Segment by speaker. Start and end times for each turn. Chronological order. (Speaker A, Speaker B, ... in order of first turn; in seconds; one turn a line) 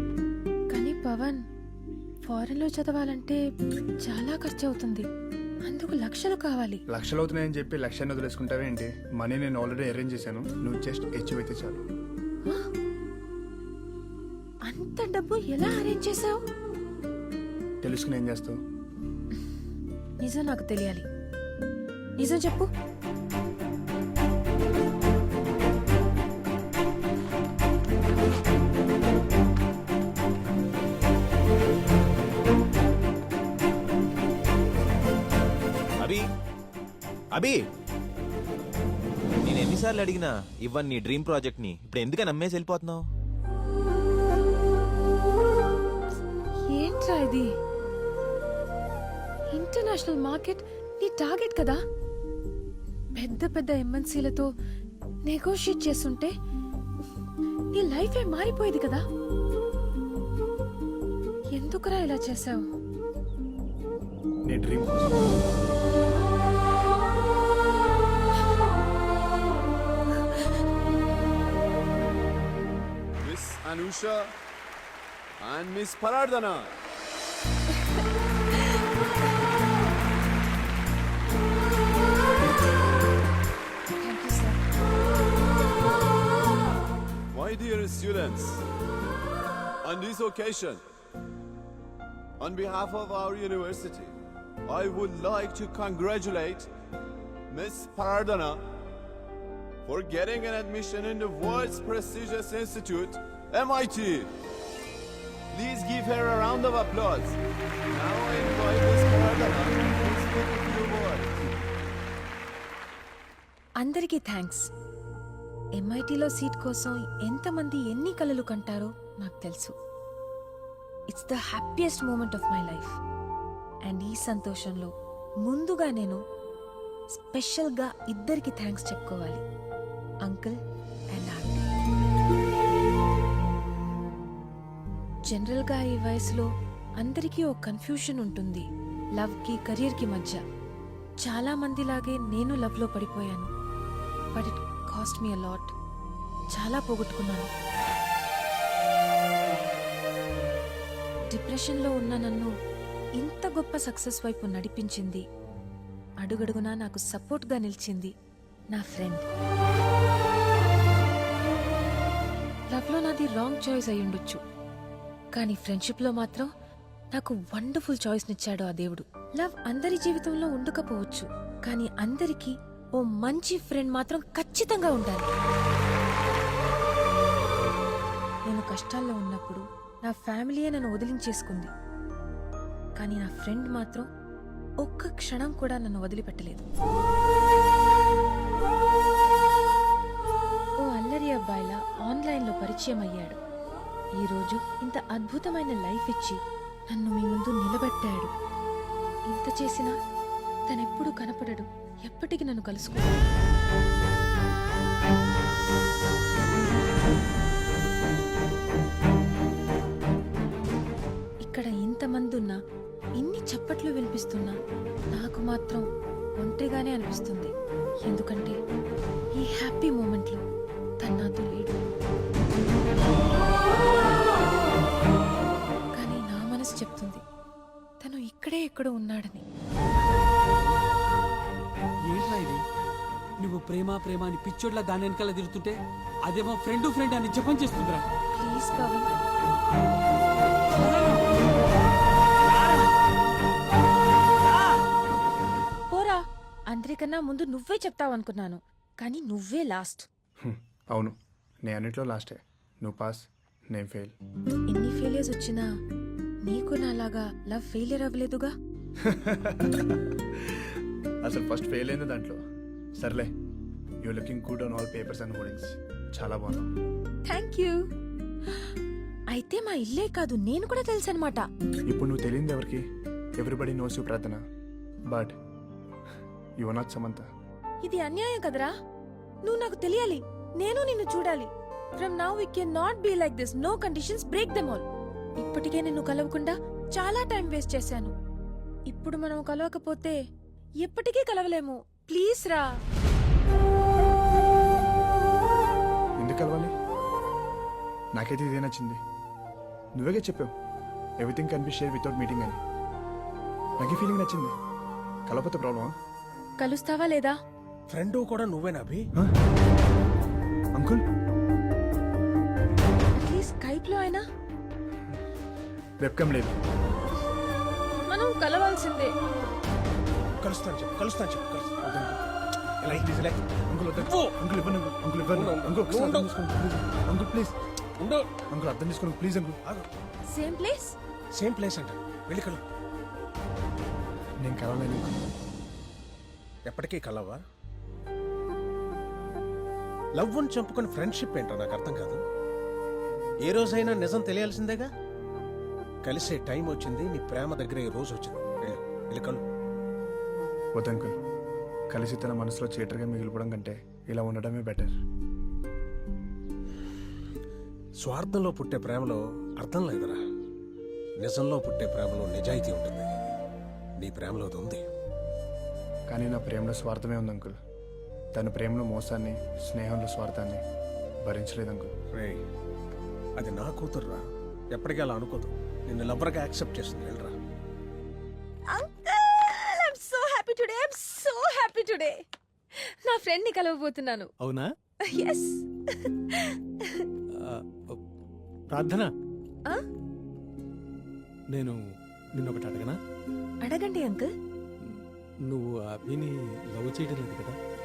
Speaker A: 0.7-1.4
Speaker A: 2.3-3.4
Speaker A: 4.0-5.0
Speaker A: 5.7-6.8
Speaker B: 6.9-11.8
Speaker A: 14.7-16.4
Speaker B: 17.8-18.6
Speaker A: 20.2-21.0
Speaker A: 22.2-22.7
Speaker C: 39.4-43.0
Speaker A: 46.7-47.5
Speaker A: 49.5-51.8
Speaker A: 53.1-54.5
Speaker A: 55.2-56.3
Speaker A: 57.7-59.0
Speaker A: 61.5-62.6
Speaker B: 64.5-65.2
Speaker D: 73.2-74.3
Speaker D: 75.4-76.7
Speaker A: 84.0-84.6
Speaker D: 87.3-88.7
Speaker D: 89.8-90.8
Speaker D: 92.4-94.1
Speaker D: 94.7-96.7
Speaker D: 97.5-98.6
Speaker D: 99.8-104.3
Speaker D: 105.5-107.4
Speaker D: 107.9-111.3
Speaker A: 113.8-114.6
Speaker A: 115.8-119.7
Speaker A: 121.1-123.0
Speaker A: 123.8-124.9
Speaker A: 125.4-126.2
Speaker A: 127.2-129.4
Speaker A: 130.2-130.5
Speaker A: 131.1-131.6
Speaker A: 135.3-136.5
Speaker A: 137.0-138.7
Speaker A: 139.2-140.4
Speaker A: 141.2-143.5
Speaker A: 144.3-145.7
Speaker A: 146.5-147.5
Speaker A: 151.3-152.5
Speaker A: 153.2-155.2
Speaker A: 156.2-158.1
Speaker A: 158.7-159.2
Speaker A: 162.7-164.4
Speaker A: 165.3-166.5
Speaker A: 167.1-175.3
Speaker A: 178.5-181.7
Speaker A: 183.0-184.1
Speaker A: 184.8-186.6
Speaker A: 190.8-193.4
Speaker A: 194.2-196.4
Speaker A: 196.9-198.3
Speaker A: 199.3-199.9
Speaker A: 200.7-203.1
Speaker A: 211.4-212.6
Speaker A: 213.2-214.6
Speaker A: 215.1-215.8
Speaker A: 216.4-217.5
Speaker A: 218.1-218.6
Speaker A: 219.3-220.4
Speaker A: 221.0-221.8
Speaker A: 226.0-227.2
Speaker A: 228.0-229.4
Speaker E: 232.1-232.6
Speaker E: 233.4-238.0
Speaker A: 238.3-239.1
Speaker E: 240.8-241.2
Speaker E: 242.6-242.9
Speaker A: 245.9-250.1
Speaker B: 250.4-251.1
Speaker B: 251.7-254.2
Speaker A: 254.7-255.7
Speaker A: 256.4-258.5
Speaker B: 259.0-262.4
Speaker B: 263.0-263.3
Speaker B: 264.0-266.7
Speaker A: 267.3-267.8
Speaker A: 269.3-271.4
Speaker B: 271.9-272.8
Speaker B: 273.4-274.4
Speaker B: 275.1-275.3
Speaker B: 276.6-277.2
Speaker A: 277.8-278.7
Speaker A: 279.4-284.9
Speaker A: 285.4-288.1
Speaker A: 288.9-290.2
Speaker A: 290.8-292.7
Speaker B: 296.2-296.7
Speaker B: 298.1-299.0
Speaker B: 300.0-300.5
Speaker B: 301.2-302.6
Speaker B: 303.8-304.5
Speaker B: 305.3-305.9
Speaker A: 306.6-307.4
Speaker F: 307.9-309.1
Speaker B: 310.7-311.0
Speaker A: 313.2-314.2
Speaker B: 316.0-316.6
Speaker A: 318.1-319.1
Speaker F: 320.4-321.9
Speaker B: 321.8-322.2
Speaker B: 322.8-327.6
Speaker F: 322.9-323.3
Speaker F: 324.0-324.3
Speaker F: 325.3-326.3
Speaker F: 328.0-328.3
Speaker B: 328.5-329.6
Speaker A: 330.3-330.9
Speaker F: 331.3-332.6
Speaker B: 334.4-335.2
Speaker F: 336.6-337.4
Speaker F: 340.1-342.2
Speaker F: 343.4-344.9
Speaker F: 346.0-349.4
Speaker B: 350.7-351.1
Speaker B: 351.9-354.9
Speaker F: 358.0-360.2
Speaker F: 361.2-363.1
Speaker F: 364.0-364.8
Speaker B: 366.1-367.5
Speaker B: 368.3-370.6
Speaker B: 371.2-371.9
Speaker F: 372.1-372.4
Speaker F: 373.4-377.3
Speaker A: 378.7-382.2
Speaker A: 382.8-384.3
Speaker G: 384.4-384.7
Speaker A: 385.1-387.1
Speaker G: 388.7-389.1
Speaker G: 391.5-391.8
Speaker G: 392.4-393.0
Speaker A: 393.6-394.3
Speaker G: 395.4-397.6